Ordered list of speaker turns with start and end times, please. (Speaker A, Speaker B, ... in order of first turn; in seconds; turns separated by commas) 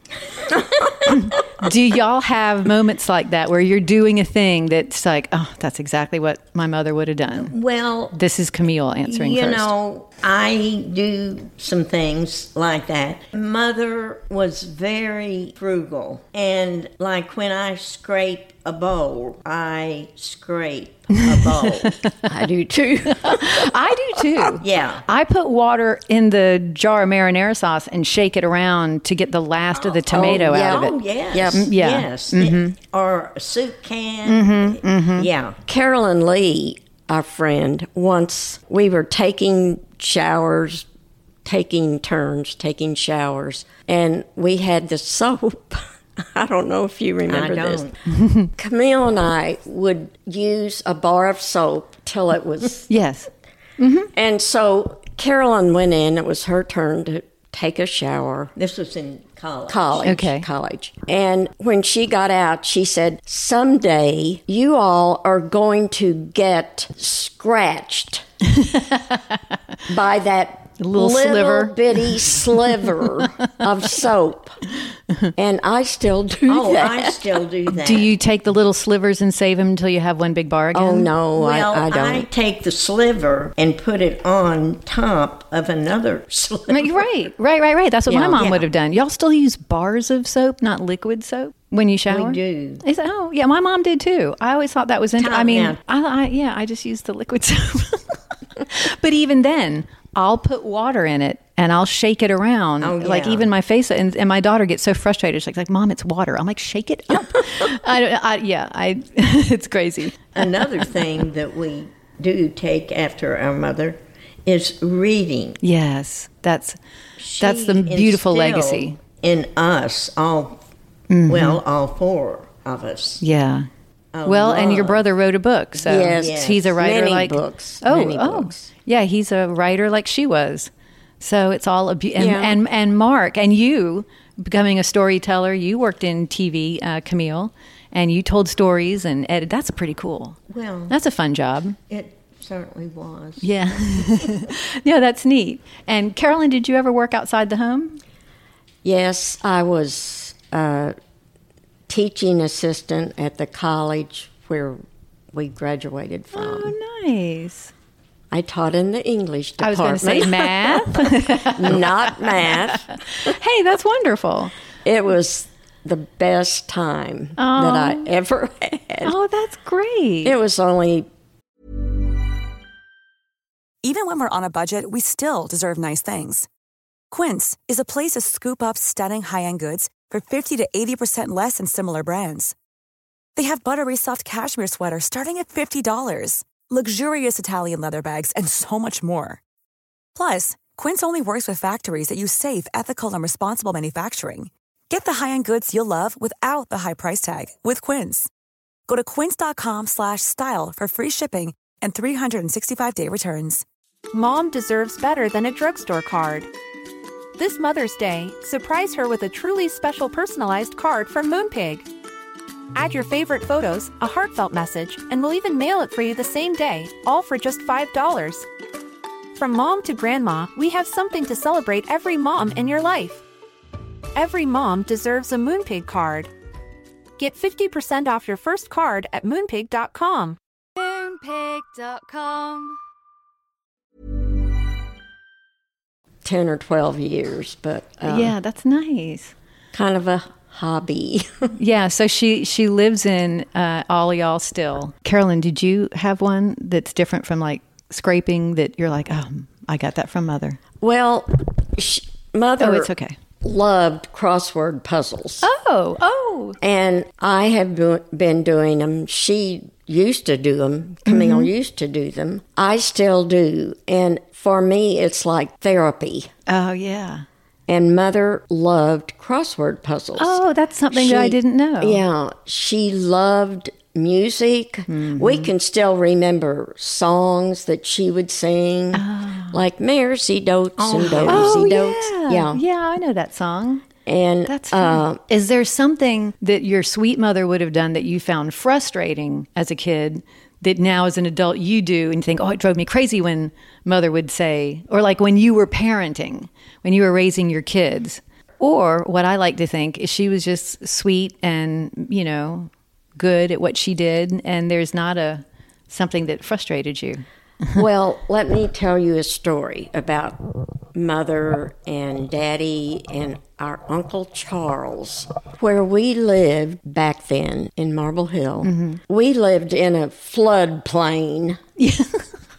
Speaker A: 0.5-1.0, Speaker B: 1.1-7.5, Speaker A: 7.3-8.2, Speaker B: 8.1-9.7, Speaker A: 9.0-22.0, Speaker C: 22.3-23.6, Speaker B: 23.1-31.0, Speaker A: 24.6-25.0, Speaker A: 29.7-35.6, Speaker C: 30.1-31.7, Speaker B: 31.5-32.7, Speaker B: 34.2-35.3, Speaker C: 35.6-40.9, Speaker C: 41.4-47.9, Speaker A: 47.3-47.9, Speaker B: 48.1-48.5, Speaker C: 48.5-52.9, Speaker B: 52.9-54.1, Speaker C: 54.1-58.5, Speaker A: 58.5-60.1, Speaker C: 59.7-68.2, Speaker B: 60.0-60.5, Speaker B: 68.6-69.1, Speaker C: 69.9-74.6, Speaker B: 70.8-72.1, Speaker C: 75.3-77.2, Speaker A: 76.5-78.1, Speaker B: 77.7-81.1, Speaker C: 80.7-82.3, Speaker A: 81.3-87.0, Speaker B: 86.7-110.6, Speaker C: 88.1-88.6, Speaker A: 92.1-92.8, Speaker A: 95.2-95.8, Speaker A: 102.8-103.5, Speaker A: 110.3-115.6, Speaker B: 115.6-116.8, Speaker A: 117.2-120.6, Speaker B: 117.4-119.0, Speaker B: 121.1-121.6, Speaker A: 121.3-123.2, Speaker B: 123.2-123.7, Speaker A: 124.1-125.0, Speaker B: 124.2-130.7, Speaker C: 125.8-128.7, Speaker A: 125.9-126.8, Speaker B: 131.2-140.4, Speaker C: 132.2-132.6, Speaker A: 140.5-140.9, Speaker B: 140.9-141.8, Speaker A: 141.9-144.4, Speaker B: 143.4-148.0, Speaker C: 148.8-150.9, Speaker C: 151.9-154.8, Speaker C: 155.3-156.7, Speaker B: 156.3-157.7, Speaker C: 158.3-160.9, Speaker B: 159.6-162.5, Speaker C: 161.5-163.3, Speaker B: 163.1-164.5, Speaker C: 164.8-169.2, Speaker B: 167.4-168.1, Speaker B: 169.0-170.3, Speaker C: 170.2-171.1, Speaker D: 173.8-176.5, Speaker D: 177.1-182.5, Speaker D: 183.3-189.4, Speaker D: 190.1-198.3, Speaker D: 198.9-203.6, Speaker E: 204.1-206.5, Speaker E: 207.3-211.9, Speaker E: 212.7-218.5, Speaker E: 219.3-223.2, Speaker E: 224.1-226.3, Speaker E: 227.2-230.4, Speaker B: 230.8-232.6, Speaker C: 236.2-238.3, Speaker B: 238.1-239.3, Speaker C: 239.7-241.5, Speaker B: 241.6-250.6, Speaker C: 250.8-255.5, Speaker B: 252.6-253.2, Speaker B: 255.4-256.6, Speaker C: 256.6-266.3, Speaker B: 261.1-261.5, Speaker B: 266.5-267.2, Speaker C: 267.7-282.6, Speaker B: 270.2-272.0, Speaker B: 274.9-275.5, Speaker B: 278.9-279.6, Speaker A: 280.8-281.7, Speaker B: 281.3-283.8, Speaker C: 284.1-285.2, Speaker B: 284.5-307.2, Speaker C: 307.7-321.6, Speaker B: 318.6-319.0, Speaker B: 321.8-322.1